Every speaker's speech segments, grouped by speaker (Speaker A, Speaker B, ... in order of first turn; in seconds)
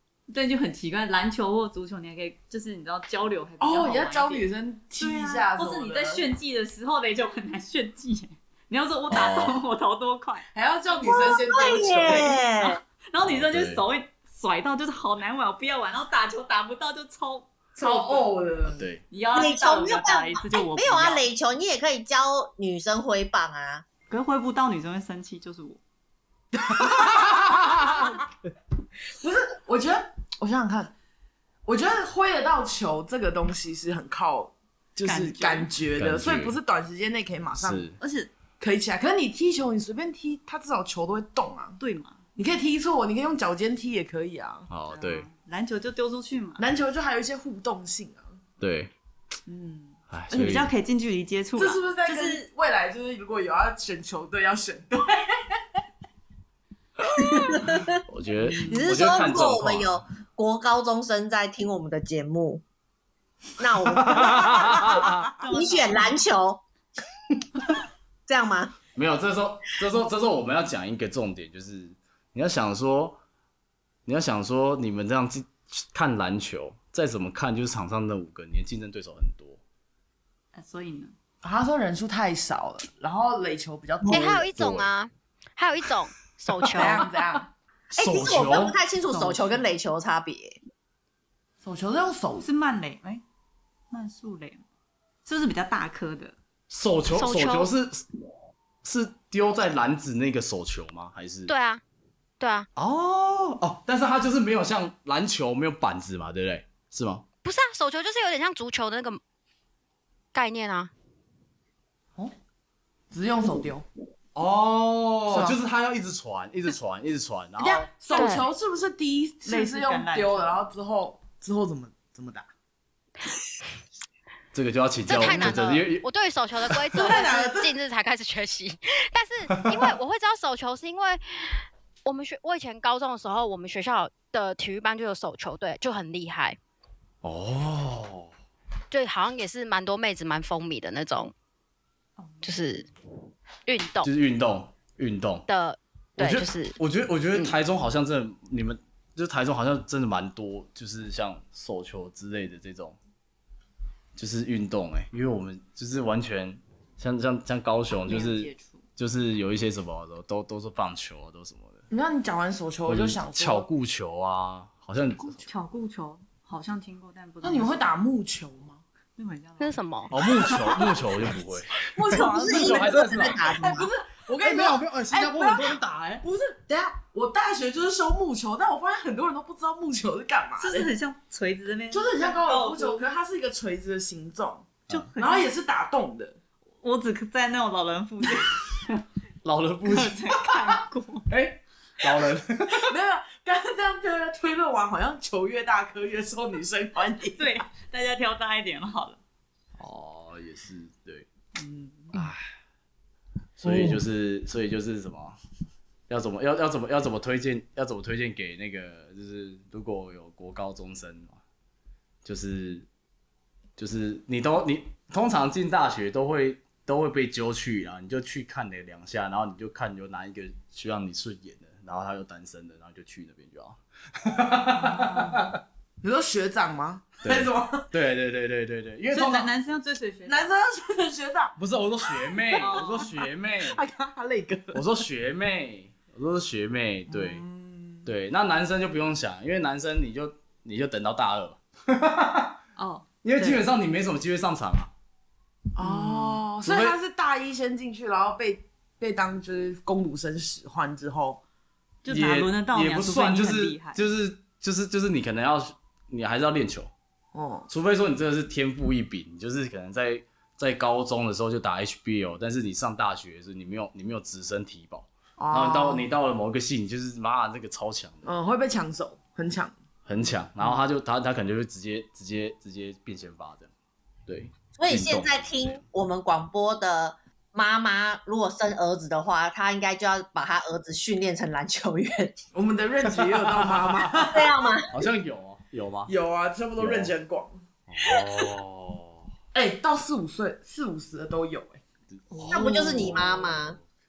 Speaker A: 0.3-4.5, 5.0-10.5, 12.6-18.3, 19.1-21.3, 24.1-25.8, 35.1-35.7, 38.0-38.3, 41.8-42.2, 44.9-46.7, 49.5-52.4, 58.4-58.9, 65.4-66.2, 80.5-81.1, 89.1-89.7, 92.4-93.2, 93.9-94.6, 95.2-96.3, 119.5-120.6, 142.2-142.5, 158.0-158.8, 165.2-167.9, 169.2-169.8, 170.4-170.8, 180.6-183.0, 184.9-185.5, 186.8-189.0, 189.8-191.3, 197.4-199.2, 201.6-202.3, 224.7-225.5, 229.1-230.6, 232.6-233.1, 242.8-243.7, 245.8-246.4, 252.0-254.0, 292.3-293.2
Speaker B: 3.6-6.2, 10.5-12.4, 17.8-18.9, 26.6-28.1, 29.2-30.9, 31.7-37.9, 38.6-41.8, 42.4-44.7, 46.6-48.4, 51.6-55.6, 81.4-84.5, 86.7-87.5, 91.6-92.5, 113.1-113.9, 115.3-115.6, 117.6-122.5, 126.9-127.7, 161.9-163.7, 167.4-168.8, 170.5-171.4, 171.9-180.9, 181.9-186.4, 192.7-197.6, 203.6-204.0, 226.0-227.9, 230.3-231.6, 232.1-233.0, 233.6-234.8, 237.1-238.0, 245.8-251.4, 257.3-257.7, 265.4-266.1, 268.2-269.8, 282.5-284.5, 286.1-287.6, 289.5-291.8
Speaker C: 9.1-9.6, 13.2-13.8, 18.8-19.0, 26.9-27.9, 36.0-36.6, 37.5-38.0, 44.7-45.3, 48.6-48.9, 50.1-50.7, 58.1-60.0, 63.9-65.3, 69.0-73.2, 74.0-79.6, 84.5-84.9, 87.9-88.8, 96.7-98.1, 98.8-101.5, 102.8-107.2, 114.3-117.9, 124.5-126.0, 137.2-138.3, 144.0-145.5, 146.2-153.0, 154.2-161.8, 162.9-165.4, 170.1-173.8, 174.4-176.2, 189.4-190.3, 191.3-193.0, 199.8-201.3, 202.1-202.4, 203.6-205.4, 206.1-211.4, 212.2-212.9, 213.8-225.6, 227.2-229.5, 231.6-233.8, 234.7-237.4, 238.0-242.6, 243.2-244.9, 246.6-247.0, 252.1-256.9, 257.7-268.3, 270.1-273.7, 274.3-275.8, 283.5-284.3, 284.9-286.1, 286.8-287.1, 287.9-289.3, 292.1-293.8
Speaker D: 11.1-12.8, 19.3-23.9, 57.2-58.0, 58.6-62.6, 63.6-66.6, 68.3-68.8, 88.0-90.6, 172.1-173.9, 274.8-282.4, 284.1-284.9, 292.5-293.8
Speaker E: 84.1-87.1, 97.1-97.7, 101.5-101.8, 102.4-102.7, 107.4-109.2, 110.3-110.9, 118.1-118.5, 125.1-136.6, 138.9-141.3, 142.4-142.9, 143.7-144.1, 145.5-146.8, 169.6-170.1